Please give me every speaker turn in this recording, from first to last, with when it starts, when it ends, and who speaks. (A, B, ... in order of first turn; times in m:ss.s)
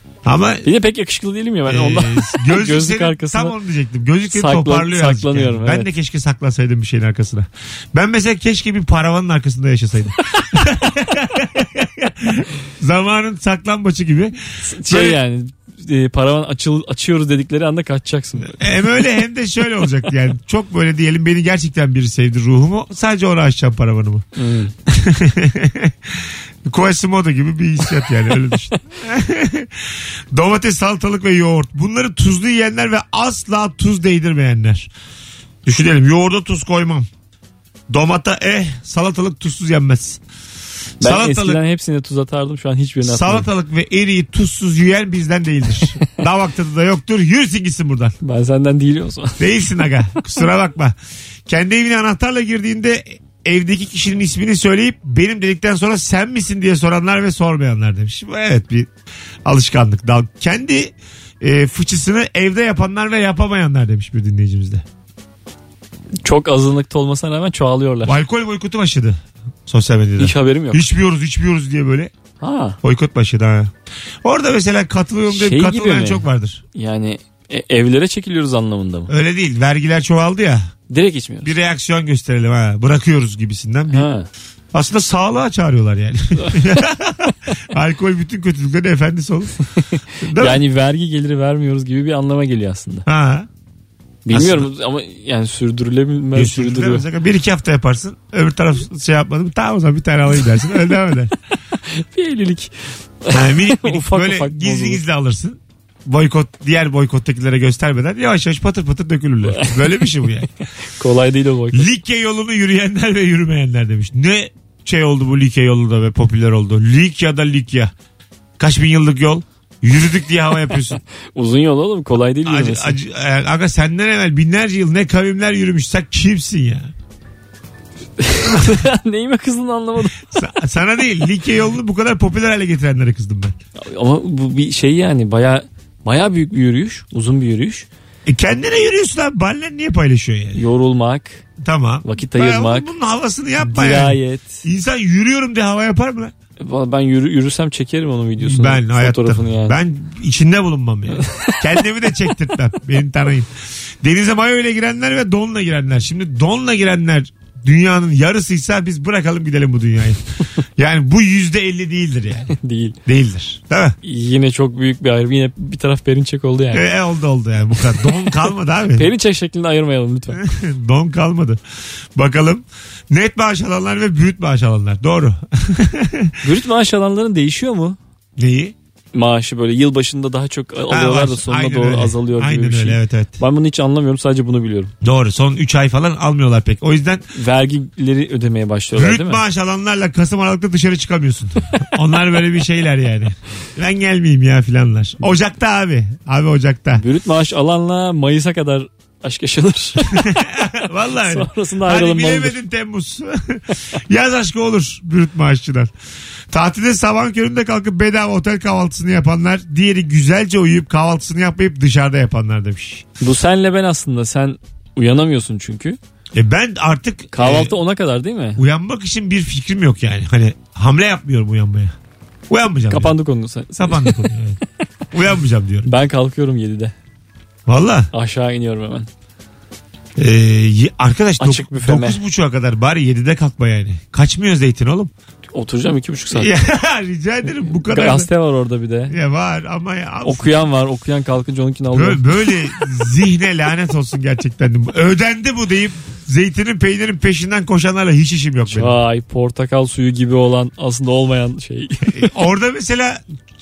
0:00.2-0:00.7 A
0:00.6-0:03.5 B
0:01.7-0:15.2 A
0:04.3-0:05.9 B
0:14.6-0:18.7 B
0:18.5-0:24.3 A
0:24.4-0:24.7 B
0:24.9-0:34.9 A
0:35.6-0:37.1 A
0:37.9-0:40.2 A
0:41.0-0:41.6 A
0:41.0-0:43.5 B
0:43.0-0:48.2 A
0:48.2-0:49.4 B
0:49.4-0:51.0 A
0:51.5-0:58.9 A
0:59.4-1:04.8 A
1:06.2-1:08.2 B
1:08.0-1:12.1 A
1:10.2-1:10.9 B
1:12.4-1:12.8 B
1:12.8-1:13.7 A
1:14.2-1:16.6 A
1:15.3-1:19.1 B
1:19.1-1:20.7 A
1:20.9-1:21.5 B
1:21.4-1:24.1 A
1:23.9-1:24.3 B
1:24.7-1:29.6 A
1:26.4-1:26.8 B
1:29.9-1:33.1 B
1:30.2-1:30.6 A
1:33.1-1:33.5 A
1:34.3-1:37.0 B
1:34.3-1:34.7 A
1:36.4-1:41.3 A
1:41.8-1:45.0 B
1:43.3-1:50.5 A
1:51.0-1:51.9 B
1:51.7-1:57.9 A
1:58.6-2:01.0 A
2:01.4-2:03.0 B
2:02.4-2:06.9 A
2:08.2-2:10.3 B
2:10.3-2:13.6 A
2:13.8-2:17.9 B
2:18.3-2:20.6 A
2:20.5-2:21.4 B
2:21.6-2:26.3 A
2:22.0-2:22.9 B
2:23.6-2:24.6 B
2:26.6-2:29.8 B
2:28.4-2:33.5 A
2:31.2-2:31.6 B
2:34.0-2:40.2 A
2:40.8-2:44.0 A
2:42.6-2:43.0 B
2:44.0-2:46.9 B
2:46.7-2:49.1 A
2:48.9-2:50.4 B
2:50.3-2:51.6 A
2:52.2-2:56.4 A
2:56.4-2:58.0 B
2:58.4-2:58.8 A
2:59.1-3:04.9 B
3:00.9-3:03.4 A
3:05.0-3:07.2 A
3:07.3-3:09.4 B
3:08.9-3:17.0 A
3:17.0-3:20.3 B
3:20.1-3:25.9 A
3:21.2-3:22.6 B
3:26.5-3:33.1 A
3:33.2-3:36.0 B
3:36.3-3:37.8 A
3:37.3-3:38.6 B
3:38.6-3:41.9 A
3:42.5-3:43.1 A
3:42.9-3:44.3 B
3:43.8-3:44.6 A
3:45.1-3:45.9 A
3:45.9-3:46.9 B
3:47.7-3:48.1 A
3:48.1-3:49.1 B
3:50.2-3:55.1 A
3:51.4-3:52.2 B
3:55.5-3:56.5 B
3:56.3-3:58.3 A
3:57.8-3:59.2 B
3:59.1-4:00.6 A
4:00.2-4:02.6 B
4:01.9-4:09.0 A
4:08.7-4:12.2 B
4:12.1-4:13.2 A